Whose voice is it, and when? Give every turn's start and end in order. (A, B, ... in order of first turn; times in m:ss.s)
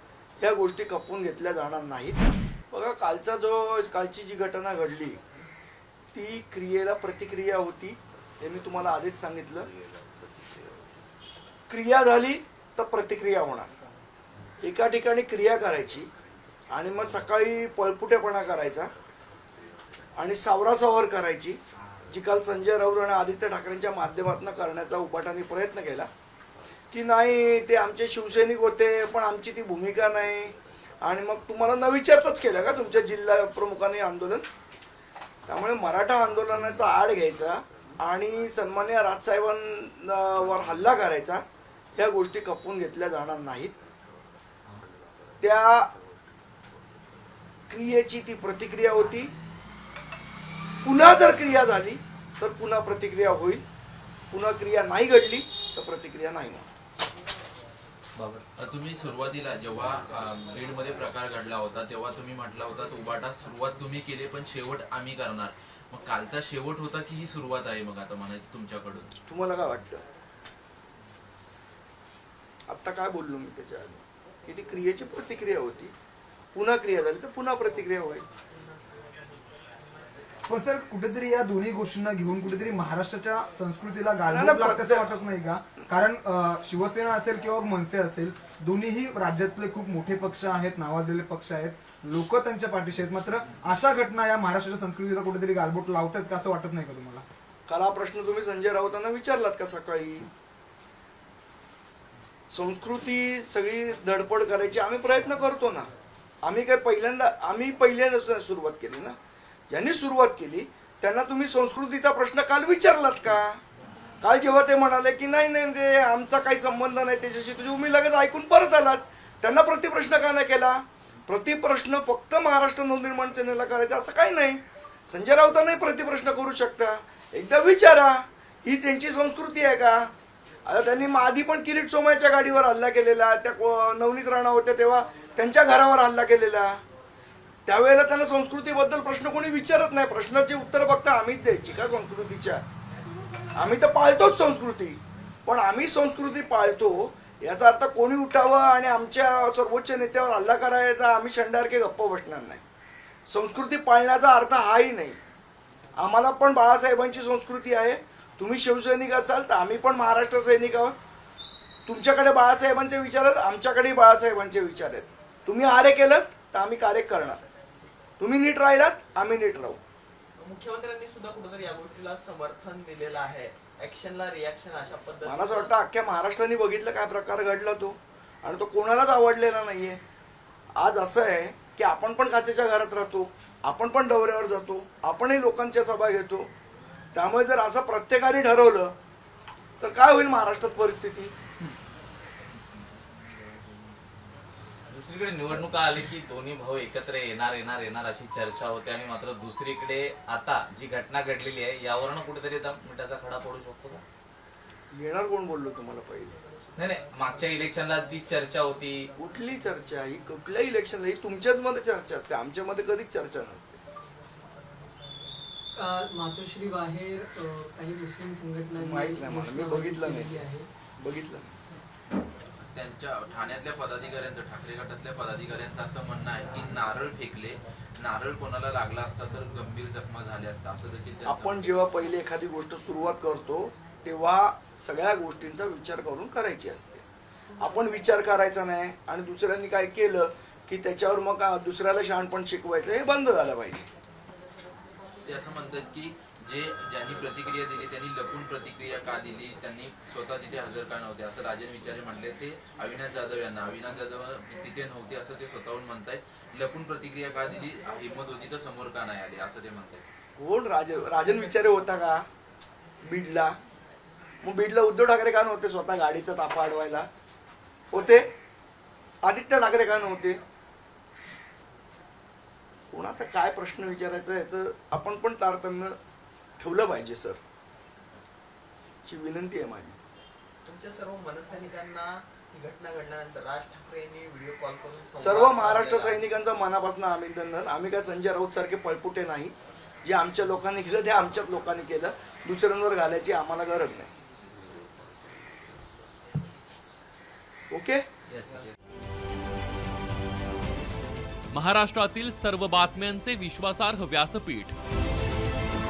0:00.4-0:02.2 A
0:02.7-0:05.2 A
0:06.1-0:09.7 A
0:11.7-0:13.7 A
0:14.6-0:16.1 A
0:16.7-0:18.9 A
0:20.2-0:21.6 A
0:22.1-0:26.1 A
0:26.9-0:34.4 A
0:35.5-0:41.4 A
0:42.0-0:43.8 A
0:45.4-0:45.9 A
0:47.7-0:49.3 A
0:50.8-0:53.6 A
0:54.3-0:56.7 A
0:58.2-0:58.4 B
0:58.6-1:09.1 C
1:09.3-1:10.0 A
1:12.7-1:15.9 A
1:16.5-1:18.2 A
1:20.5-1:37.2 D
1:24.3-1:25.2 A
1:37.7-1:40.3 A
1:42.5-1:45.9 A
1:46.4-1:49.2 A
1:49.7-1:53.6 A
1:54.2-2:10.1 A
2:10.6-2:16.8 A
2:17.7-2:22.6 A
2:23.6-2:32.6 A
2:33.3-2:35.2 A
2:36.0-2:41.0 A
2:41.9-2:47.4 A
2:48.2-2:49.8 A
2:50.4-2:55.7 E
2:55.2-3:00.0 A
3:00.8-3:06.5 A
3:07.1-3:08.9 A
3:09.8-3:11.3 A
3:14.9-3:24.0 B
3:24.9-3:26.4 A
3:26.8-3:29.1 B
3:29.2-3:33.8 A
3:35.7-3:40.7 F
3:38.7-3:40.4 A
3:41.0-3:41.5 A
3:42.7-3:51.7 C
3:51.3-3:57.0 A
3:57.6-4:03.9 A
4:05.2-4:20.0 C
4:20.4-4:22.2 A
4:23.1-4:23.6 A
4:24.4-4:27.1 A
4:27.9-4:28.3 A
4:29.2-4:30.4 A
4:32.9-4:36.0 A
4:36.6-4:37.4 A
4:39.0-4:40.0 A
4:40.6-4:46.2 E
4:45.2-4:54.1 A
4:57.7-4:58.0 A
5:01.5-5:04.7 G